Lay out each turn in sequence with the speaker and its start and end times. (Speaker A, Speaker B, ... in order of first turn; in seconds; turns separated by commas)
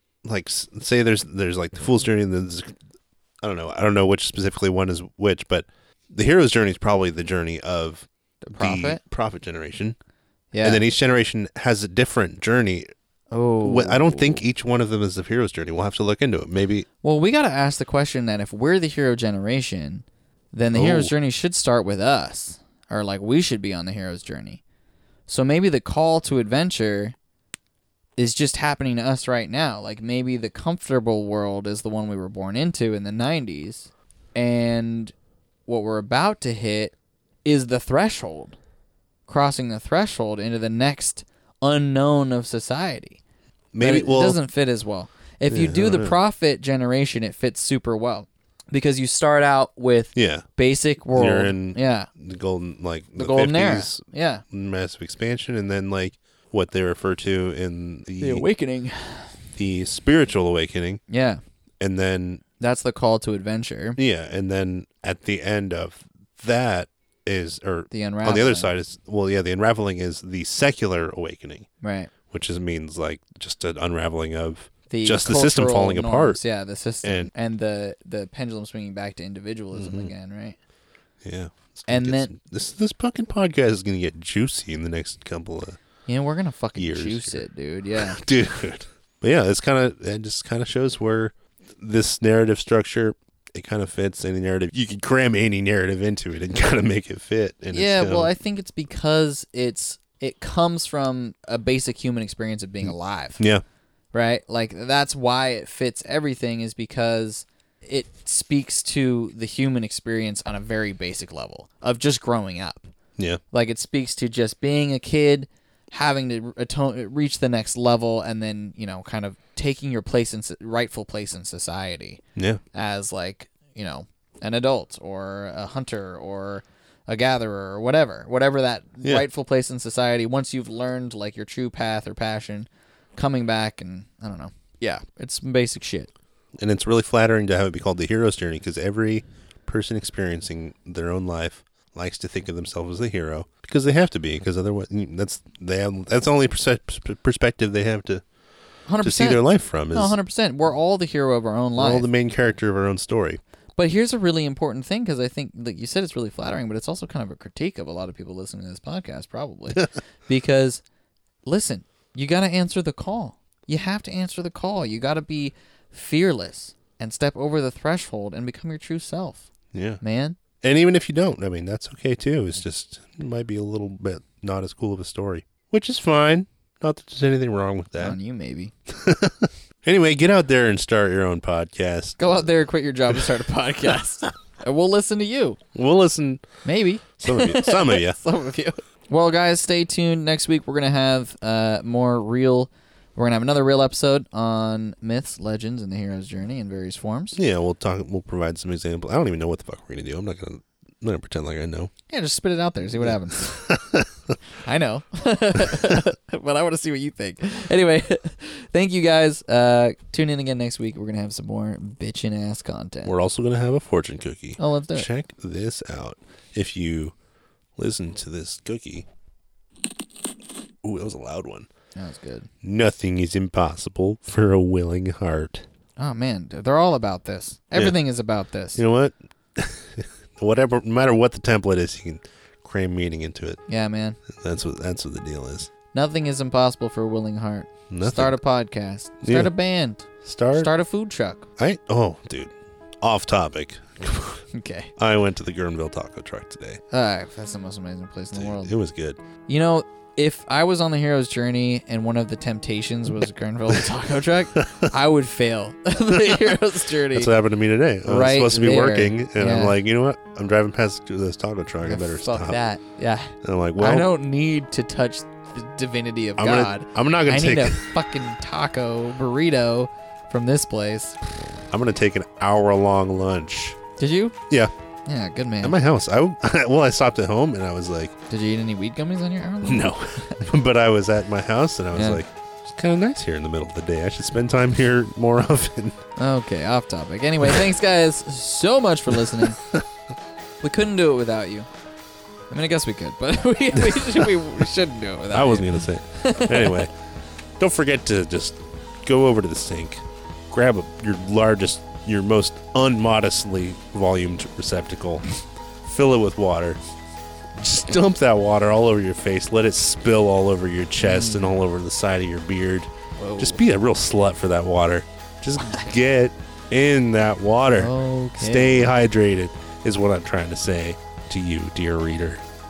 Speaker A: 0.2-2.7, Speaker A: 3.4-8.1, Speaker B: 8.4-9.0, Speaker A: 8.6-9.9, Speaker B: 10.5-10.9, Speaker A: 10.6-12.9, Speaker B: 13.3-14.4, Speaker A: 13.6-16.9, Speaker B: 17.0-24.6, Speaker A: 20.7-21.1, Speaker B: 25.3-27.1, Speaker B: 28.2-35.1, Speaker B: 35.6-38.5, Speaker B: 39.3-43.2, Speaker A: 43.7-44.4, Speaker B: 43.8-52.1, Speaker A: 45.5-46.2, Speaker A: 50.1-50.5, Speaker A: 51.1-58.5, Speaker B: 53.2-54.4, Speaker B: 58.2-59.4, Speaker A: 59.5-61.0, Speaker B: 61.1-61.4, Speaker A: 61.8-62.4, Speaker B: 62.6-64.0, Speaker A: 64.0-71.7, Speaker B: 67.9-68.7, Speaker B: 71.8-72.1, Speaker A: 72.3-76.4, Speaker B: 74.9-80.6, Speaker A: 77.0-77.3, Speaker A: 79.7-80.1, Speaker A: 81.2-85.8, Speaker B: 81.9-82.3, Speaker B: 86.0-88.2, Speaker A: 86.7-87.4, Speaker A: 87.9-98.3, Speaker B: 97.7-103.4, Speaker B: 104.1-112.9, Speaker B: 113.5-122.2, Speaker B: 122.7-136.1, Speaker A: 136.6-148.2, Speaker B: 148.9-152.1, Speaker A: 149.0-150.2, Speaker A: 151.8-153.4, Speaker B: 153.8-160.8, Speaker B: 161.4-169.5, Speaker A: 169.7-170.0, Speaker B: 170.0-170.4, Speaker A: 170.6-178.2, Speaker B: 178.0-178.7, Speaker A: 178.9-182.5, Speaker B: 182.2-185.6, Speaker A: 185.7-186.4, Speaker B: 186.6-197.4, Speaker A: 187.2-188.2, Speaker A: 197.3-201.9, Speaker B: 202.1-203.7, Speaker A: 203.6-204.0, Speaker B: 204.6-213.1, Speaker A: 213.0-217.1, Speaker B: 214.6-215.1, Speaker A: 217.8-219.1, Speaker A: 220.8-221.7, Speaker B: 221.9-222.5, Speaker A: 222.6-225.6, Speaker B: 226.0-228.8, Speaker A: 228.8-233.6, Speaker B: 233.7-234.2, Speaker A: 234.4-235.7, Speaker B: 235.9-241.5, Speaker A: 237.9-238.4, Speaker A: 239.2-239.5, Speaker A: 240.2-240.7, Speaker A: 241.6-244.4, Speaker B: 244.5-244.9, Speaker A: 245.0-246.8, Speaker B: 246.9-248.7, Speaker A: 248.3-249.2, Speaker B: 249.4-257.3, Speaker A: 256.1-262.6, Speaker B: 258.1-259.8, Speaker B: 261.8-271.2, Speaker A: 263.4-264.1, Speaker A: 266.4-267.8, Speaker A: 271.7-273.8, Speaker B: 274.0-274.4, Speaker B: 275.1-275.8, Speaker A: 275.6-278.1, Speaker B: 278.3-280.4, Speaker A: 279.6-285.9, Speaker B: 281.9-282.2, Speaker B: 286.2-289.6, Speaker B: 290.6-291.7, Speaker B: 292.5-296.9, Speaker A: 293.8-294.3, Speaker A: 295.3-296.9, Speaker A: 297.6-305.3, Speaker A: 305.8-306.8, Speaker A: 307.6-322.4, Speaker B: 311.0-311.5, Speaker B: 313.2-313.6, Speaker B: 317.8-318.9